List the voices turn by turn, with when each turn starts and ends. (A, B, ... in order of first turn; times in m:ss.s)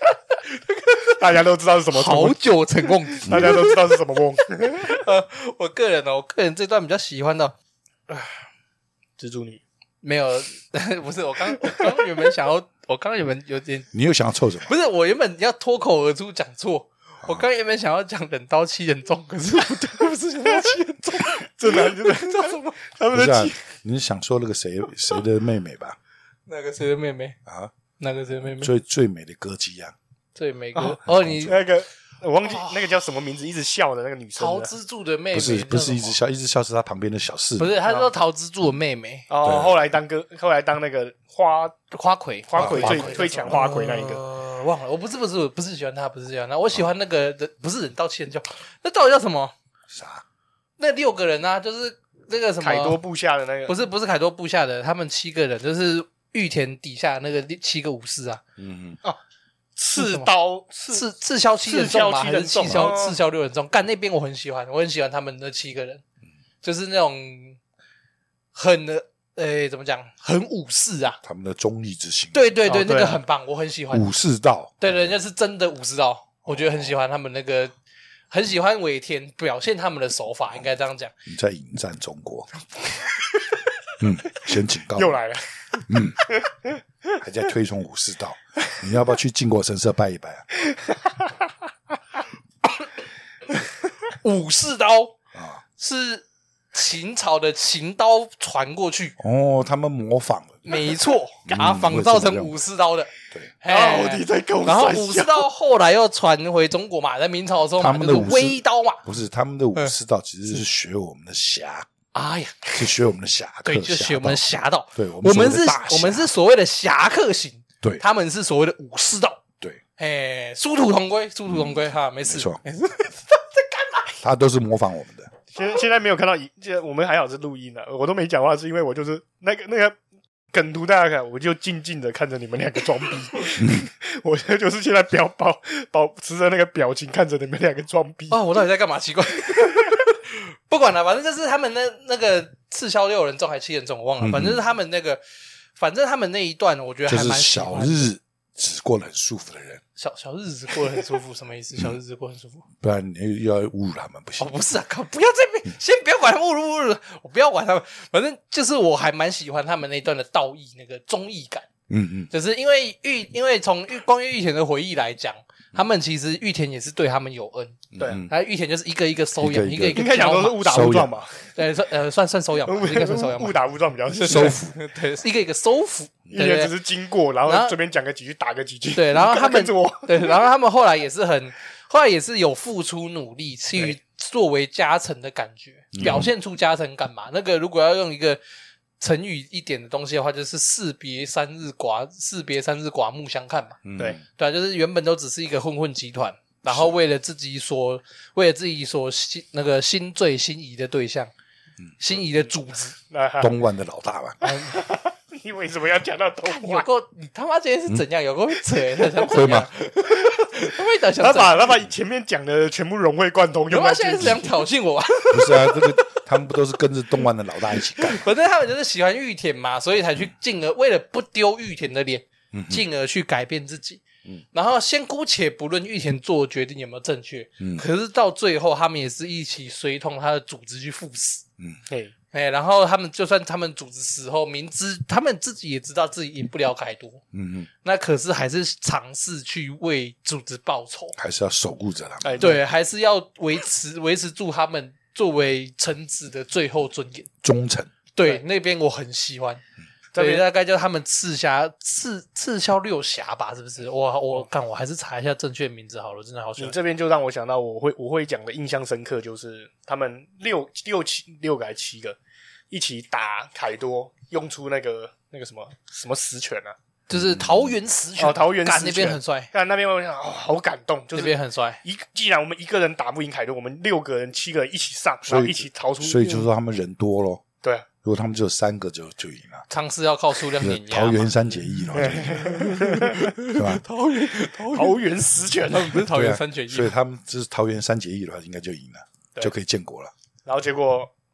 0:00.5-0:01.3 A
0:01.0-0:02.4 B
0:01.9-0:03.9 A
0:03.1-0:05.0 B
0:03.3-0:03.7 C
0:04.6-0:07.5 A
0:09.2-0:09.6 B
0:10.0-0:13.9 A
0:13.9-0:14.7 C
0:14.6-0:22.8 A
0:21.2-0:23.6 B
0:23.1-0:26.0 C
0:26.5-0:27.4 A
0:27.5-0:27.7 C
0:28.0-0:28.7 A
0:28.4-0:30.0 C
0:30.4-0:31.6 A
0:30.8-0:34.7 B
0:31.0-0:31.6 C
0:32.4-0:32.9 A
0:34.4-0:36.2 A
0:35.3-0:37.7 C
0:37.6-0:39.3 A
0:39.3-0:41.8 B
0:39.4-0:39.8 C
0:41.9-0:49.5 A
0:42.5-0:44.2 B
0:42.6-0:43.6 C
0:49.9-0:50.2 C
0:50.8-0:53.0 A
0:52.6-0:53.8 B
0:53.7-0:58.4 A
0:58.6-0:59.0 C
0:59.8-1:01.1 B
1:00.0-1:00.3 A
1:00.9-1:06.0 A
1:01.6-1:03.2 B
1:06.6-1:07.6 A
1:08.5-1:11.2 A
1:11.2-1:12.4 C
1:12.3-1:14.1 A
1:12.7-1:13.2 B
1:13.9-1:15.1 C
1:14.8-1:17.7 A
1:16.5-1:16.9 C
1:18.3-1:21.1 A
1:21.3-1:22.5 C
1:24.0-1:25.2 C
1:24.9-1:26.8 B
1:25.9-1:26.2 C
1:27.2-1:30.5 C
1:30.7-1:31.3 B
1:34.2-1:35.2 A
1:35.3-1:35.6 C
1:35.8-1:39.2 A
1:39.2-1:40.7 C
1:40.6-1:43.1 A
1:41.5-1:42.6 C
1:43.6-1:49.0 A
1:43.7-1:45.5 B
1:47.8-1:51.9 C
1:52.1-1:53.0 A
1:52.8-1:56.3 C
1:53.6-1:59.4 A
2:00.0-2:04.2 A
2:01.5-2:02.6 C
2:04.2-2:05.3 C
2:05.5-2:10.0 B
2:10.5-2:18.4 B
2:18.3-2:25.2 A
2:24.2-2:24.6 C
2:25.8-2:28.1 A
2:27.1-2:29.8 C
2:30.0-2:32.7 A
2:32.8-2:34.5 C
2:34.4-2:41.7 A
2:41.9-2:42.3 C
2:42.3-2:50.9 A
2:47.9-2:48.3 C
2:49.4-2:50.1 C
2:49.9-2:51.4 B
2:50.6-2:51.2 C
2:51.5-2:53.6 A
2:52.7-2:54.6 B
2:54.1-2:56.7 A
2:54.2-2:54.8 C
2:56.3-3:00.4 B
2:57.5-2:57.7 A
2:58.9-3:08.4 A
3:05.9-3:06.3 C
3:09.0-3:21.3 A
3:13.8-3:14.2 C
3:16.7-3:16.9 C
3:22.0-3:23.0 A
3:23.1-3:23.5 B
3:23.4-3:24.4 C
3:24.4-3:24.8 A
3:24.7-3:26.9 B
3:26.5-3:31.7 A
3:29.2-3:29.7 C
3:31.2-3:34.5 B
3:33.7-3:36.2 A
3:35.3-3:38.2 C
3:38.0-3:51.4 A
3:42.5-3:42.8 C
3:47.6-3:47.8 C
3:52.3-3:57.2 A
3:57.3-3:57.7 C
3:57.8-4:01.2 A
4:01.2-4:02.6 C
4:02.2-4:02.6 B
4:02.4-4:07.3 A
4:07.4-4:07.9 C
4:08.2-4:09.6 A
4:10.1-4:10.5 B
4:10.2-4:16.7 A
4:16.6-4:22.2 B
4:22.7-4:26.8 B
4:27.1-4:29.5 A
4:27.2-4:27.8 C
4:28.2-4:36.5 B
4:31.1-4:31.8 A
4:35.3-4:37.4 C
4:38.0-4:39.6 C
4:39.7-4:41.3 A
4:40.6-4:42.6 C
4:41.9-4:43.2 B
4:42.1-4:45.0 A
4:43.5-4:43.8 C
4:44.7-4:46.1 B
4:45.7-4:46.9 A
4:46.1-4:50.1 C
4:50.5-4:51.1 B